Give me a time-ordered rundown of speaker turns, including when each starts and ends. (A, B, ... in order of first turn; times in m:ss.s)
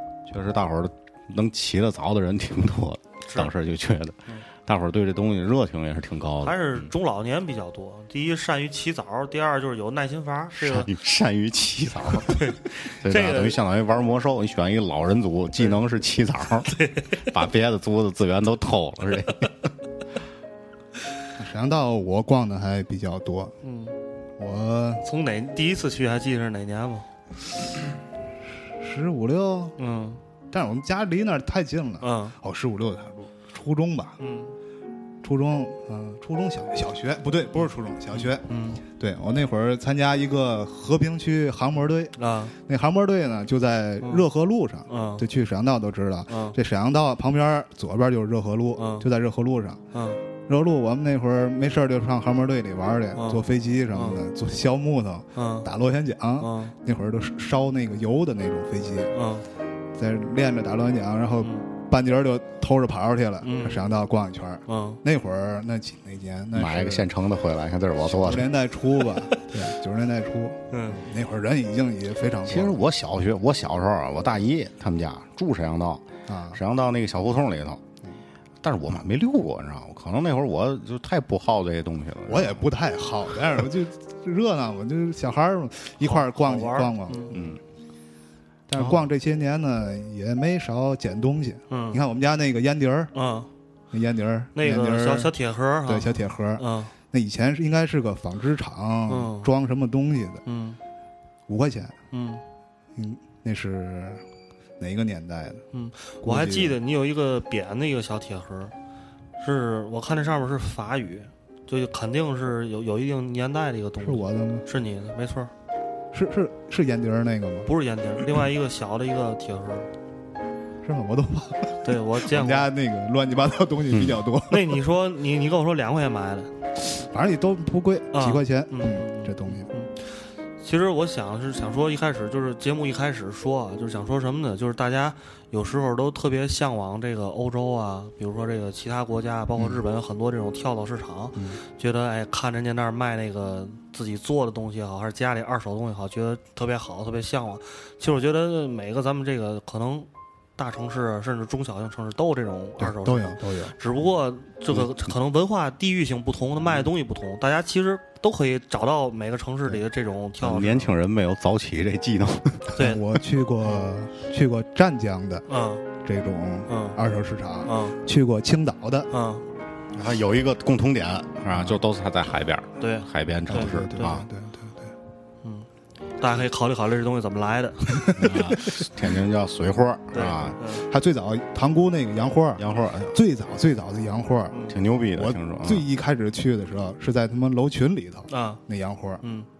0:00.3-0:06.9 A
0:03.3-0:03.5 B
0:06.4-0:10.9 B
0:10.5-0:19.7 A
0:12.3-0:13.6 B
0:16.7-0:17.2 B
0:21.4-0:23.5 C
0:23.6-0:23.9 B
0:24.4-0:25.0 C
0:25.0-0:27.0 B
0:28.8-0:29.8 C
0:29.8-0:30.2 B
0:30.5-0:34.2 C
0:32.0-0:32.3 B
0:34.2-0:34.5 B
0:35.2-0:49.8 C
0:38.1-0:38.8 B
0:42.2-0:42.5 B
0:44.9-0:45.2 B
0:46.3-0:46.6 B
0:48.8-0:49.0 B
0:49.9-0:50.2 B
0:50.5-0:59.1 C
0:53.2-0:53.4 B
0:55.4-0:55.7 B
0:56.4-0:56.7 B
0:59.1-0:59.4 B
1:00.0-1:07.1 C
1:03.4-1:03.8 B
1:04.7-1:05.0 B
1:06.5-1:08.5 A
1:08.1-1:12.8 C
1:10.7-1:11.0 B
1:12.5-1:17.8 A
1:16.3-1:16.6 C
1:18.6-1:22.6 A
1:22.3-1:27.6 C
1:26.0-1:27.3 B
1:27.3-1:27.6 A
1:28.7-1:33.1 C
1:31.7-1:32.0 B
1:33.1-1:33.5 B
1:33.9-1:35.3 C
1:34.6-1:36.9 B
1:35.8-1:40.4 C
1:39.1-1:39.5 B
1:40.4-1:40.8 B
1:41.5-1:42.0 C
1:42.1-1:42.4 B
1:43.0-1:44.2 C
1:44.8-1:45.6 C
1:45.7-1:48.7 B
1:46.2-1:46.8 C
1:49.4-1:55.5 B
1:54.0-1:54.6 C
1:56.1-1:57.7 C
1:57.6-1:59.9 B
2:00.8-2:04.8 C
2:01.8-2:02.7 B
2:03.9-2:04.2 A
2:04.5-2:06.5 B
2:06.9-2:09.7 C
2:08.1-2:10.0 B
2:10.6-2:40.9 B
2:32.8-2:33.8 C
2:40.4-2:42.7 A
2:42.8-2:43.0 B
2:42.8-2:45.4 C
2:45.5-2:45.8 B
2:46.0-2:49.1 C
2:46.7-2:47.0 B
2:47.6-2:48.0 B
2:49.1-2:49.4 B
2:49.9-2:54.3 A
2:52.8-2:54.2 B
2:53.5-2:54.9 C
2:56.2-2:58.1 B
2:58.0-2:58.4 C
2:58.2-3:00.6 A
3:00.1-3:00.8 B
3:00.9-3:04.6 C
3:02.6-3:03.2 A
3:04.7-3:05.9 A
3:05.1-3:09.2 C
3:08.3-3:08.6 B
3:09.2-3:09.5 B